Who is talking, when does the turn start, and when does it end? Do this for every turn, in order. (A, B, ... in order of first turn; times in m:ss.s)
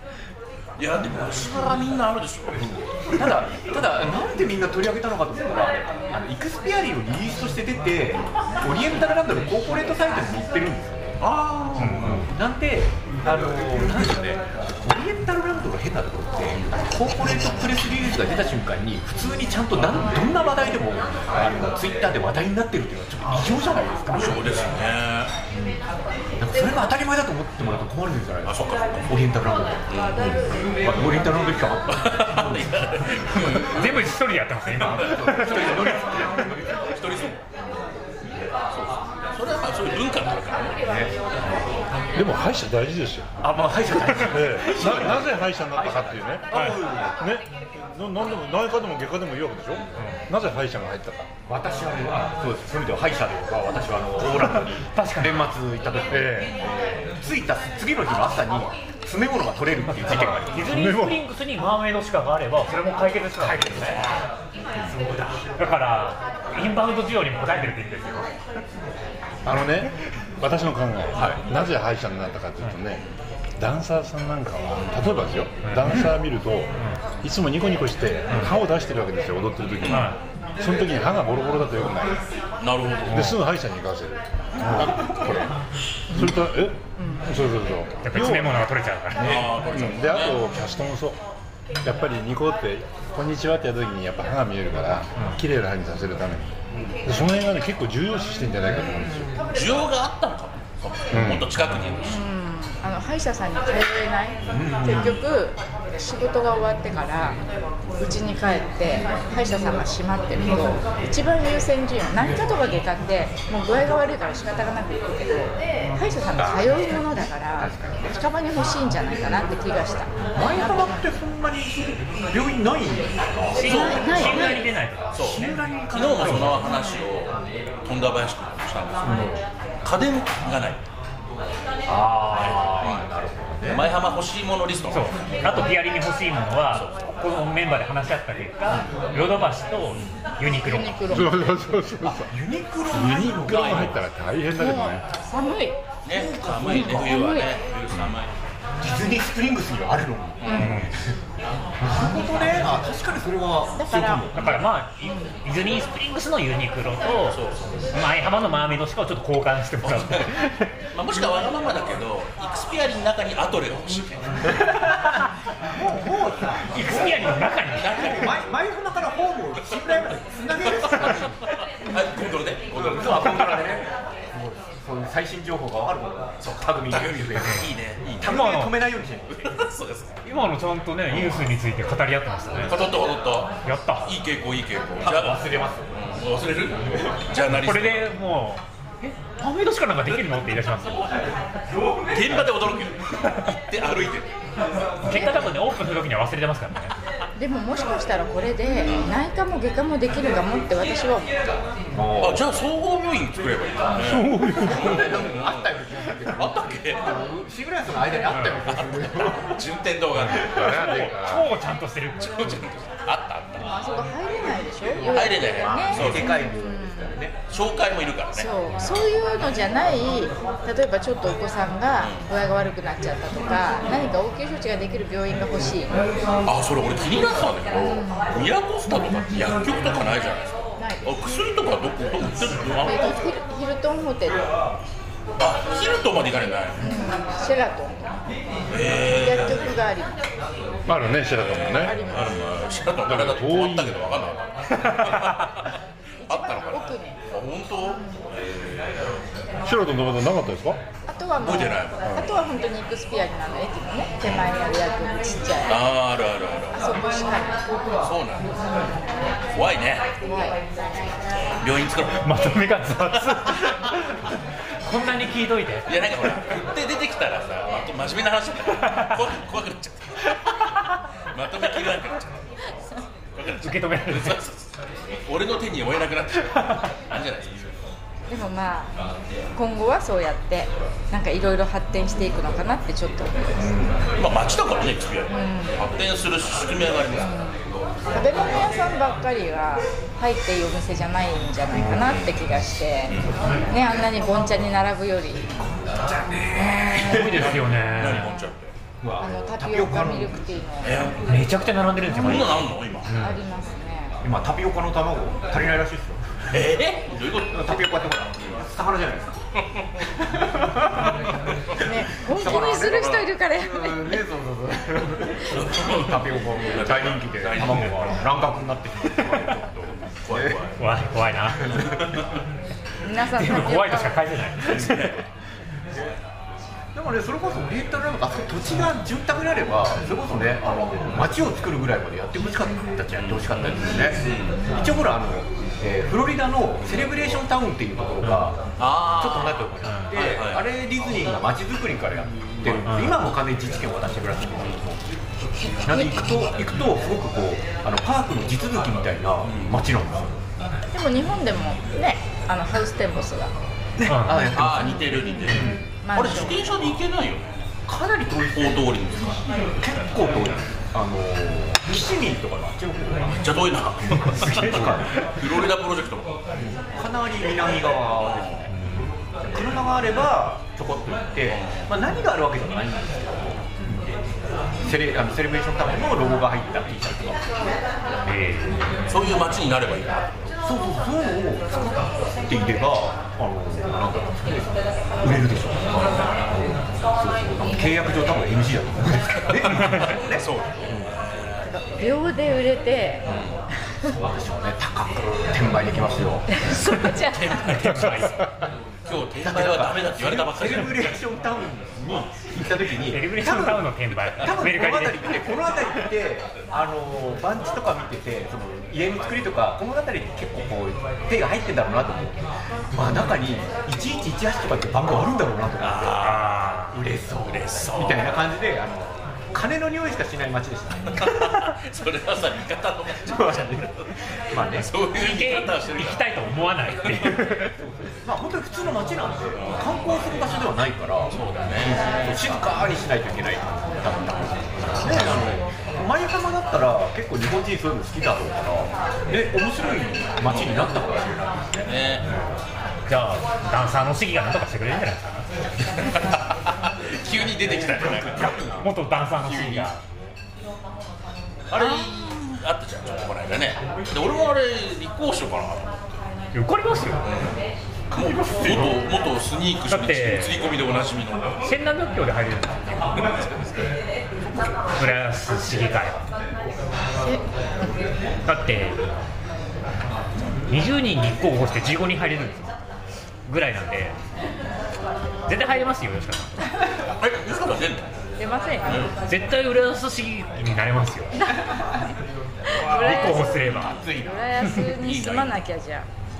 0:00.8-0:03.2 A
0:02.6-0:11.2 B
0:11.2-0:12.2 A
0:11.8-0:24.4 B
0:24.1-0:25.3 A
0:25.5-0:25.8 B
0:26.4-0:32.8 B
0:28.4-0:29.0 A
0:29.9-0:30.2 A
0:31.9-0:34.1 A
0:33.3-0:33.6 B
0:33.6-0:35.9 C
0:34.8-0:37.4 A
0:34.9-0:36.8 B
0:38.8-0:40.8 A
0:40.8-0:41.6 B
0:42.1-0:43.3 D
0:43.4-0:47.2 B
0:44.1-0:51.3 D
0:46.5-0:46.8 C
0:51.5-1:00.7 B
0:54.9-0:55.4 C
0:56.1-0:56.5 D
0:59.9-1:04.0 C
1:00.5-1:01.2 D
1:03.4-1:04.2 B
1:04.8-1:05.4 B
1:05.6-1:08.3 C
1:09.4-1:13.0 D
1:11.1-1:11.4 B
1:13.6-1:22.2 D
1:15.6-1:16.1 C
1:19.8-1:20.1 A
1:19.9-1:20.2 C
1:22.6-1:23.4 A
1:23.1-1:25.5 D
1:23.1-1:23.4 C
1:26.1-1:31.2 D
1:27.0-1:27.2 E
1:28.0-1:29.4 C
1:29.2-1:30.4 A
1:31.8-1:39.3 D
1:39.5-1:42.2 A
1:41.1-1:41.8 D
1:42.0-1:47.4 E
1:44.4-1:45.2 B
1:48.0-2:01.0 E
1:56.4-1:58.2 B
2:00.3-2:03.9 B
2:03.5-2:05.6 C
2:03.6-2:09.3 A
2:03.6-2:04.7 E
2:05.1-2:06.7 B
2:06.2-2:06.6 C
2:06.6-2:07.0 E
2:09.0-2:09.4 B
2:09.8-2:10.8 A
2:11.8-2:13.9 B
2:12.3-2:13.1 A
2:13.6-2:15.6 A
2:14.9-2:21.3 C
2:16.7-2:17.1 A
2:20.6-2:21.7 E
2:21.1-2:22.3 D
2:22.0-2:24.0 B
2:22.9-2:25.0 D
2:23.5-2:23.9 A
2:24.6-2:25.8 E
2:26.0-2:28.3 A
2:26.1-2:27.1 B
2:26.6-2:27.5 E
2:28.8-2:31.1 B
2:30.4-2:30.7 A
2:30.4-2:30.8 E
2:30.6-2:30.9 C
2:31.8-2:34.5 B
2:33.8-2:34.3 E
2:34.3-2:37.4 C
2:34.4-2:34.6 A
2:37.3-2:37.8 A
2:37.9-2:40.7 C
2:39.8-2:40.4 A
2:40.9-2:44.6 A
2:45.7-2:51.4 B
2:46.7-2:48.3 C
2:46.8-2:48.5 A
2:50.6-2:53.8 A
2:52.7-2:59.4 B
2:56.4-2:58.4 A
2:58.2-2:58.7 C
2:59.3-3:00.2 A
3:00.2-3:02.8 C
3:01.1-3:01.5 A
3:02.6-3:08.1 A
3:03.6-3:04.1 C
3:05.0-3:06.2 B
3:07.4-3:11.2 C
3:10.1-3:10.4 A
3:12.1-3:14.3 A
3:15.0-3:16.9 C
3:15.1-3:15.5 E
3:17.4-3:21.4 E
3:21.9-3:22.4 B
3:22.2-3:27.2 A
3:24.0-3:25.2 D
3:24.5-3:29.6 B
3:28.3-3:28.7 C
3:28.6-3:31.1 A
3:30.2-3:31.5 D
3:30.5-3:32.6 C
3:32.2-3:33.7 A
3:33.6-3:37.2 E
3:35.0-3:37.3 B
3:35.0-3:36.3 A
3:37.5-3:38.5 A
3:38.3-3:45.9 E
3:42.0-3:42.3 A
3:46.4-3:53.2 A
3:47.7-3:48.3 E
3:50.8-3:51.1 E
3:52.8-3:54.5 E
3:55.4-3:57.0 A
3:56.8-3:58.2 E
3:58.7-3:59.7 A
3:59.0-4:00.2 E
4:00.9-4:04.4 D
4:01.4-4:08.8 A
4:01.8-4:02.6 E
4:06.2-4:07.2 E
4:07.8-4:08.2 E
4:09.6-4:10.8 D
4:11.1-4:15.8 E
4:11.4-4:12.0 A
4:12.0-4:12.3 D
4:14.2-4:14.5 A
4:15.7-4:17.0 A
4:16.7-4:17.7 E
4:18.0-4:18.6 A
4:19.5-4:20.1 A
4:20.2-4:21.1 E
4:21.6-4:22.5 A
4:22.2-4:24.3 C
4:23.2-4:23.9 A
4:24.8-4:25.9 C
4:25.8-4:37.8 A
4:28.9-4:29.1 C
4:33.6-4:34.4 C
4:38.3-4:38.9 E
4:39.5-4:43.6 E
4:43.6-4:44.1 B
4:44.2-4:47.3 A
4:45.3-4:45.8 E
4:47.2-4:47.6 E
4:48.1-4:53.2 E
4:51.9-4:52.4 A
4:53.1-4:53.4 A
4:53.7-4:55.5 E
4:55.6-4:57.6 B
4:56.6-4:57.3 E
4:56.9-4:58.3 C
4:57.0-4:58.7 A
4:59.0-5:00.4 B
4:59.2-5:01.1 E
5:00.8-5:01.2 A
5:01.2-5:03.4 C
5:02.1-5:03.1 A
5:03.1-5:04.2 E
5:04.2-5:06.2 B
5:06.5-5:08.6 A
5:07.5-5:09.4 B
5:10.2-5:11.2 B
5:11.8-5:14.2 E
5:11.9-5:19.7 B
5:12.5-5:13.2 A
5:15.5-5:18.2 A
5:19.5-5:20.8 A
5:20.3-5:20.6 B
5:20.8-5:21.8 C
5:21.6-5:22.2 B
5:21.7-5:22.2 A
5:23.0-5:24.2 E
5:23.3-5:25.2 C
5:24.6-5:25.2 A
5:26.9-5:38.6 B
5:33.2-5:34.6 A
5:38.2-5:38.5 C
5:38.8-5:40.6 A
5:39.2-5:45.1 B
5:39.8-5:40.1 C
5:42.6-5:42.9 A
5:42.8-5:43.3 C
5:45.8-5:50.4 B
5:49.4-5:49.8 A
5:50.9-5:53.5 E
5:54.0-5:55.9 B
5:54.1-5:54.5 C
5:54.3-5:57.5 A
5:55.2-5:56.6 E
5:57.9-5:58.9 B
5:58.5-5:59.4 A
5:59.8-6:03.4 B
6:03.2-6:06.3 A
6:04.2-6:05.6 B
6:06.6-6:08.7 B
6:08.2-6:08.6 A
6:08.7-6:09.1 C
6:09.4-6:14.0 B
6:11.5-6:11.9 A
6:14.8-6:17.4 B
6:18.2-6:18.9 C
6:19.1-6:20.3 A
6:20.6-6:31.2 B
6:29.5-6:31.5 A
6:31.7-6:33.2 E
6:33.3-6:33.6 A
6:33.9-6:34.1 E
6:34.1-6:36.5 B
6:36.5-6:37.8 E
6:37.3-6:38.4 A
6:37.8-6:38.4 C
6:39.0-6:41.2 A
6:39.4-6:56.4 B
6:43.1-6:45.6 C
6:55.8-6:56.8 A
6:56.2-6:57.0 C
6:56.9-7:01.6 B
6:57.4-6:58.3 A
7:01.2-7:04.1 A
7:03.3-7:03.9 B
7:04.5-7:04.9 B
7:04.7-7:06.4 A
7:05.1-7:07.7 C
7:07.0-7:07.5 A
7:07.8-7:22.5 B
7:11.3-7:12.3 A
7:20.4-7:20.9 A
7:21.8-7:22.3 A
7:23.1-7:25.5 C
7:26.0-7:28.9 A
7:27.6-7:29.9 B
7:28.8-7:30.0 C
7:31.7-7:36.0 A
7:31.7-7:32.2 E
7:36.5-7:37.2 C
7:37.2-7:37.6 A
7:38.1-7:41.6 A
7:38.1-7:38.9 B
7:39.9-7:40.6 C
7:41.6-7:43.3 C
7:43.2-7:43.9 A
7:45.0-7:46.2 C
7:48.4-7:49.0 C
7:50.7-7:52.8 C
7:53.4-7:54.2 C
7:55.5-7:56.7 C
7:57.1-7:58.1 A
7:58.4-7:59.1 E
7:58.8-7:59.1 A
7:59.3-8:01.4 C
8:01.4-8:01.7 E
8:02.7-8:06.1 E
8:02.9-8:04.3 B
8:02.9-8:04.0 C
8:04.8-8:05.6 A